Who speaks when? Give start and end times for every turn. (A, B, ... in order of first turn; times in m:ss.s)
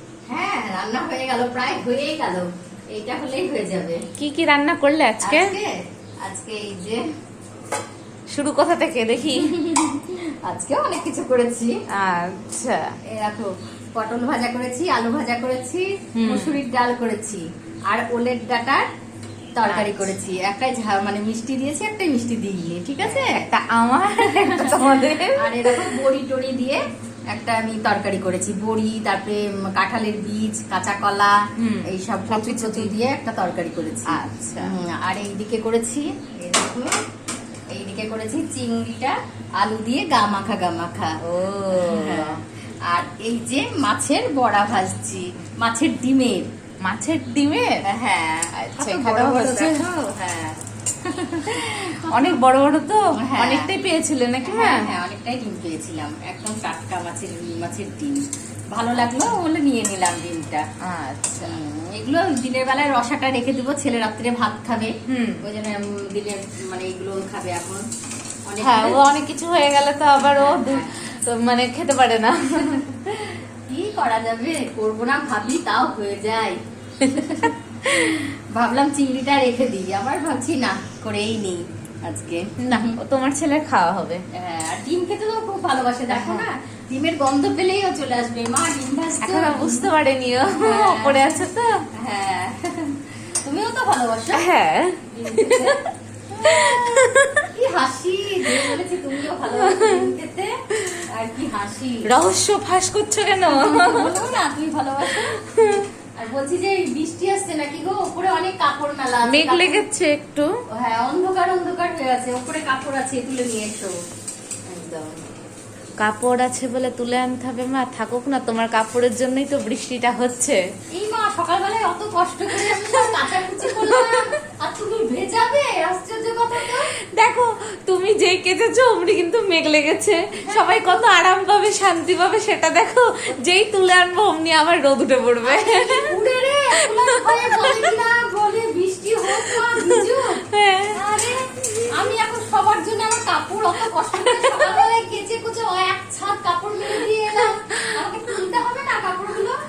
0:00.3-0:04.0 A
0:04.2-0:05.5 B
0:05.2-0:05.7 A
0:06.2-0:07.0 A
0:08.3-0:09.6 B
0:09.2-0:11.7 A
0:12.0-0:12.9 B
0:13.1-0:18.8 A
0:16.2-0:16.6 B
0:19.6-0:23.4 A
0:19.6-0:20.1 B
0:23.0-0:26.0 B
0:24.2-0:26.8 A
0:27.3-0:31.3 A
0:31.6-0:33.0 B
0:31.9-0:36.9 A
0:34.1-0:34.7 B
0:37.7-0:41.1 A
0:41.2-0:42.4 B
0:41.7-0:42.4 A
0:42.9-0:46.5 A
0:46.8-0:47.8 B
0:47.9-0:52.4 A
0:48.6-0:49.8 B
0:52.1-0:54.8 B
0:53.2-0:53.7 A
0:54.4-0:58.2 A
0:58.7-1:00.6 A
0:59.0-0:59.3 B
1:00.8-1:01.5 B
1:01.4-1:07.8 A
1:05.1-1:05.4 B
1:08.5-1:09.0 A
1:08.6-1:12.9 B
1:10.2-1:10.9 A
1:13.2-1:23.0 A
1:22.6-1:24.2 B
1:24.3-1:29.9 A
1:26.1-1:26.4 B
1:29.2-1:31.8 B
1:30.5-1:31.3 A
1:32.0-1:34.5 A
1:34.3-1:35.9 B
1:35.0-1:35.8 A
1:36.3-1:40.5 A
1:36.4-1:37.4 B
1:38.5-1:38.7 B
1:39.5-1:40.0 B
1:41.1-1:42.1 A
1:42.0-1:44.1 B
1:43.4-1:49.8 A
1:45.1-1:45.8 B
1:49.2-1:50.5 B
1:50.7-1:53.9 A
1:54.7-1:55.0 A
1:56.0-2:00.6 B
2:00.9-2:06.9 A
2:02.6-2:04.3 B
2:07.1-2:16.2 B
2:10.4-2:11.1 A
2:15.4-2:20.4 A
2:16.8-2:17.9 B
2:19.3-2:21.0 B
2:20.9-2:29.6 A
2:24.1-2:24.8 B
2:27.0-2:28.0 B